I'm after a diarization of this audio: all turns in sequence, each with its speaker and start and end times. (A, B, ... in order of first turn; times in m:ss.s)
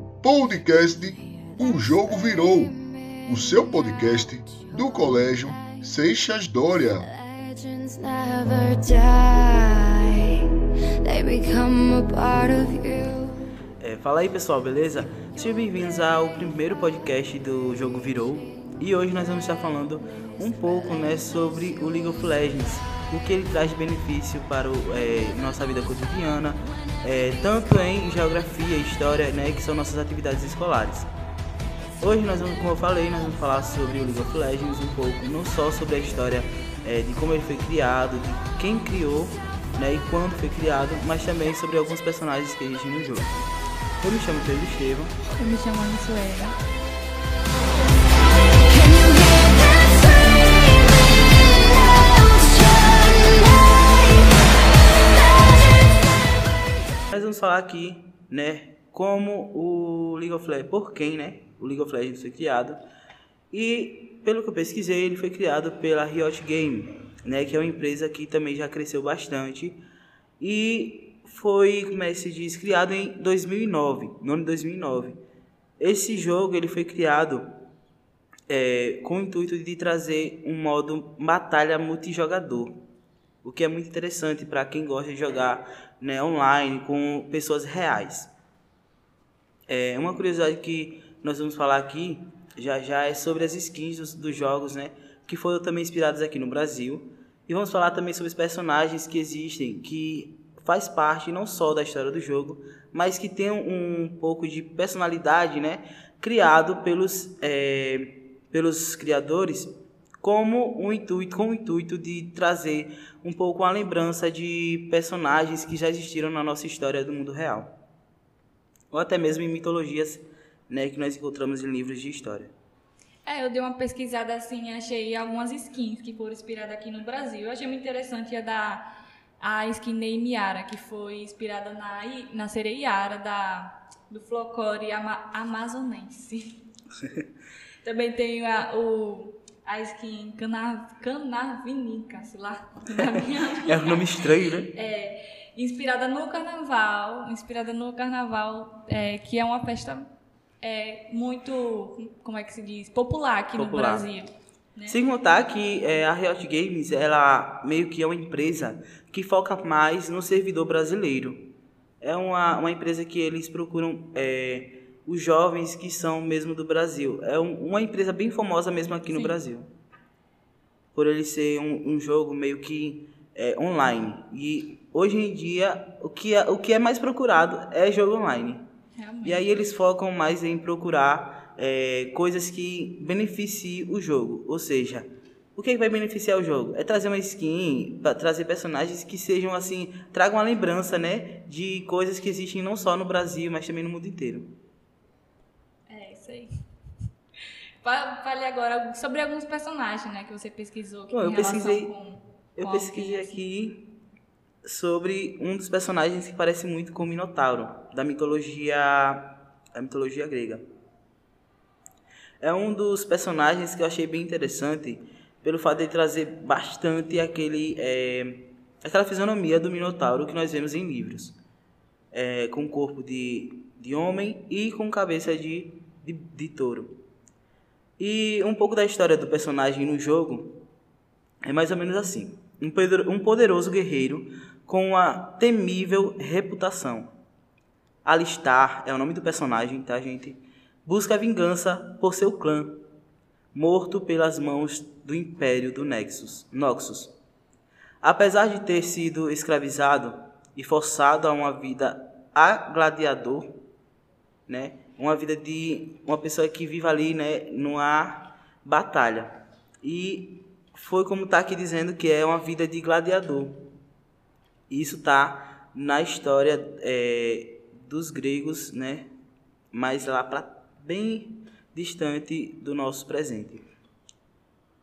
0:00.2-0:02.8 A
0:01.4-0:04.8 B
0:03.3-0:07.1 A
0:07.1-0:13.4 B
0:13.8-0:31.1 C
0:32.0-0:43.4 C
0:44.0-0:45.2 C
0:45.3-0:46.6 D
0:48.7-0:54.5 B
0:55.2-0:55.8 B
0:57.1-1:02.8 C
1:03.5-1:09.8 C
1:10.4-1:15.2 C
1:15.8-1:17.5 C
1:18.5-1:22.8 C
1:23.4-1:28.3 C
1:29.7-1:57.7 C
1:58.9-2:02.5 C
2:03.2-2:08.8 D
2:09.4-2:16.6 D
2:17.8-2:30.1 D
2:23.7-2:24.7 C
2:30.6-2:35.0 D
2:33.6-2:34.1 C
2:34.9-2:41.5 C
2:42.0-2:49.7 C
2:49.1-2:49.4 D
2:51.0-2:58.6 C
2:59.0-2:59.4 D
2:59.2-3:14.5 C
3:15.9-3:16.5 D
3:17.8-3:23.4 D
3:21.1-3:21.9 C
3:22.6-3:23.8 C
3:24.6-3:30.6 C
3:32.4-3:41.4 C
3:42.1-3:47.0 C
3:48.0-3:50.6 C
3:51.4-3:57.1 C
3:58.0-4:02.8 C
4:03.5-4:07.1 C
4:08.0-4:13.6 C
4:14.5-4:23.6 C
4:24.7-4:29.1 C
4:29.7-4:33.7 C